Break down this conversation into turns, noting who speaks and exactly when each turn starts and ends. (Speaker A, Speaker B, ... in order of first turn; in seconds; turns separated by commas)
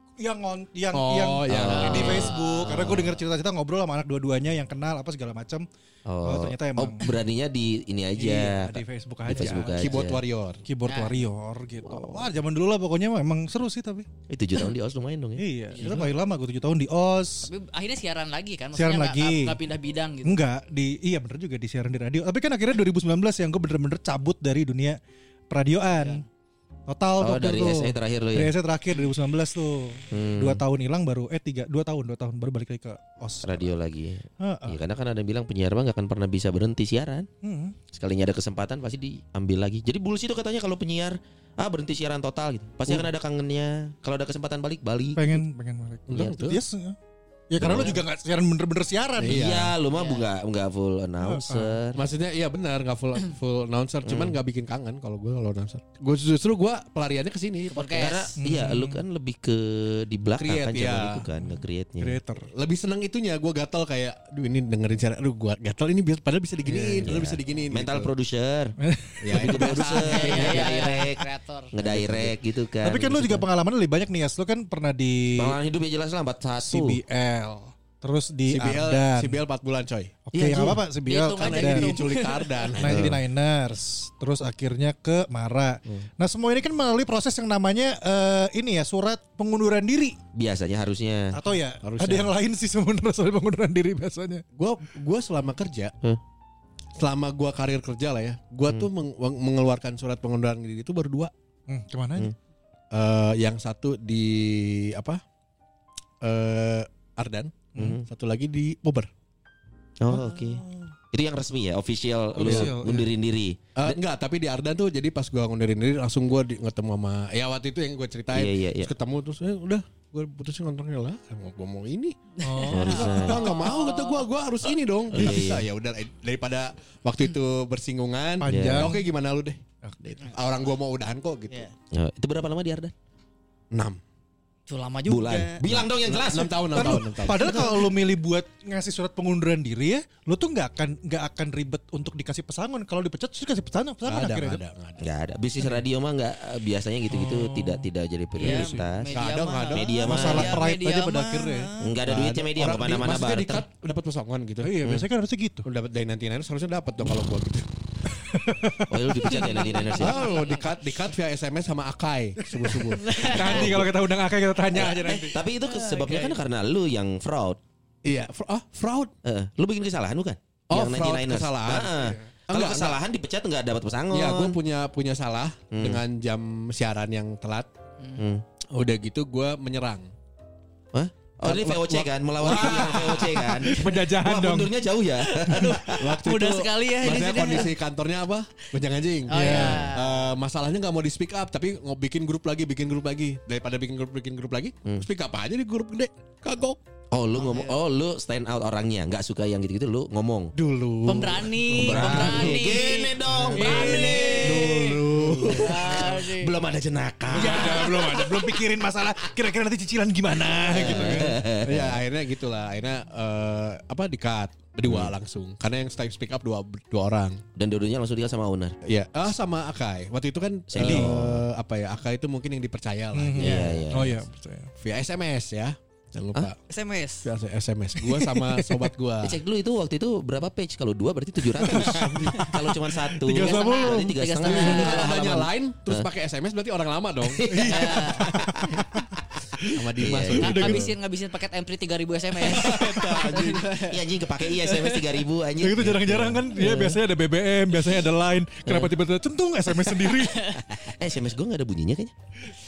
Speaker A: 0.2-5.7, Speaker B: 0.9-2.3, Speaker C: 1.5-3.2, Speaker D: 1.7-2.7, Speaker C: 6.1-10.2, Speaker A: 6.2-7.1, Speaker A: 8.2-10.0, Speaker B: 9.3-10.6, Speaker A: 10.7-14.1, Speaker D: 10.9-11.2, Speaker C: 11.8-12.2, Speaker C: 14.3-15.4, Speaker A: 15.4-17.5, Speaker D: 15.7-16.1, Speaker D: 17.4-20.4, Speaker A: 18.8-19.6, Speaker A: 20.2-25.0, Speaker A: 25.5-26.2, Speaker A: 26.9-33.7, Speaker C: 27.2-28.5, Speaker C: 30.1-30.6, Speaker C: 33.4-37.3, Speaker A: 34.4-34.8, Speaker A: 37.4-37.8, Speaker C: 37.9-45.4, Speaker A: 45.2-47.0, Speaker B: 46.1-46.6, Speaker A: 47.5-49.5, Speaker C: 47.6-48.0, Speaker B: 49.2-49.7, Speaker C: 49.2-52.0, Speaker D: 49.9-50.3, Speaker A: 51.2-51.8, Speaker B: 52.0-58.1, Speaker C: 54.1-54.4, Speaker D: 57.7-58.3, Speaker C: 58.0-62.2, Speaker A: 58.4-59.0, Speaker B: 60.4-61.3, Speaker A: 61.4-62.5, Speaker B: 62.5-68.1, Speaker C: 67.0-68.8, Speaker A: 68.8-70.0, Speaker B: 69.2-70.8, Speaker C: 69.3-73.5, Speaker D: 69.8-71.7, Speaker B: 71.8-72.3, Speaker A: 72.8-75.6, Speaker C: 75.4-77.0, Speaker A: 76.6-79.4, Speaker B: 78.5-80.2, Speaker A: 80.3-82.0, Speaker C: 80.3-80.8, Speaker D: 81.1-82.7, Speaker B: 81.4-83.2, Speaker A: 82.8-90.2, Speaker C: 82.8-83.2, Speaker C: 90.3-91.4, Speaker A: 91.3-94.4, Speaker B: 91.8-92.3, Speaker B: 94.6-96.0, Speaker B: 97.0-101.3, Speaker A: 101.7-102.3, Speaker B: 102.9-105.2, Speaker B: 106.2-109.1, Speaker C: 107.8-108.0, Speaker C: 110.0-114.0, Speaker A: 110.1-110.9, Speaker A: 112.3-113.1, Speaker B: 112.4-112.7, Speaker B: 113.8-122.2, Speaker C: 118.3-118.9, Speaker D: 122.4-124.3, Speaker A: 122.4-123.3, Speaker C: 122.7-123.5, Speaker B: 122.9-131.7, Speaker C: 125.1-125.7, Speaker A: 128.4-129.0, Speaker C: 128.5-129.0, Speaker C: 131.9-132.9, Speaker B: 133.7-134.0, Speaker D: 134.7-135.7, Speaker C: 135.1-137.0, Speaker B: 135.7-137.8, Speaker A: 136.7-144.6, Speaker B: 144.1-145.1, Speaker C: 145.0-149.1, Speaker A: 147.1-147.9, Speaker D: 148.4-151.9, Speaker A: 148.4-148.9, Speaker B: 149.1-150.6, Speaker C: 149.7-150.7, Speaker A: 150.1-151.7, Speaker C: 151.8-153.7, Speaker B: 152.1-154.9, Speaker A: 154.6-155.7, Speaker B: 155.7-157.7, Speaker A: 158.1-159.6, Speaker C: 158.9-160.3, Speaker D: 159.3-160.7, Speaker B: 160.0-163.8, Speaker A: 162.5-165.4, Speaker D: 163.0-163.7, Speaker C: 163.4-163.8, Speaker C: 164.7-167.6, Speaker D: 165.7-166.3, Speaker B: 168.0-169.1, Speaker C: 169.2-174.6, Speaker B: 170.7-173.0, Speaker B: 174.1-177.7, Speaker C: 175.7-176.0, Speaker C: 178.2-178.4, Speaker B: 178.7-180.1, Speaker C: 180.9-186.1, Speaker B: 181.4-183.5, Speaker A: 182.5-184.8, Speaker D: 185.3-187.7, Speaker B: 186.0-196.8, Speaker D: 189.3-190.3, Speaker A: 189.3-189.8, Speaker C: 189.5-189.9, Speaker C: 197.1-200.5, Speaker D: 197.3-197.8, Speaker B: 200.6-202.7, Speaker D: 201.1-206.6, Speaker C: 201.8-208.1, Speaker A: 201.8-202.3, Speaker A: 203.3-204.3, Speaker B: 203.3-206.0, Speaker A: 207.3-211.4, Speaker B: 207.4-207.7, Speaker C: 210.7-212.0, Speaker B: 210.8-217.4, Speaker C: 214.9-215.1, Speaker C: 217.6-218.8, Speaker B: 218.9-223.8, Speaker C: 220.7-221.4, Speaker A: 220.8-221.1, Speaker A: 223.1-224.7, Speaker C: 223.4-224.2, Speaker B: 224.8-226.6, Speaker D: 226.7-227.3, Speaker B: 227.2-229.4, Speaker A: 228.0-228.9, Speaker C: 229.2-236.1, Speaker A: 231.6-232.5, Speaker B: 231.7-232.5, Speaker A: 233.2-234.8, Speaker D: 233.3-235.1, Speaker B: 234.5-238.0, Speaker C: 237.3-238.0, Speaker A: 237.5-239.1, Speaker D: 237.7-238.2, Speaker C: 238.5-238.8, Speaker B: 239.7-240.9, Speaker C: 240.0-240.8, Speaker D: 240.4-244.0, Speaker A: 240.4-240.8, Speaker B: 242.5-243.7, Speaker A: 242.6-243.0, Speaker C: 242.9-247.0, Speaker D: 244.5-245.1, Speaker A: 245.6-250.5, Speaker C: 248.7-248.9, Speaker D: 250.2-250.6, Speaker C: 250.6-252.1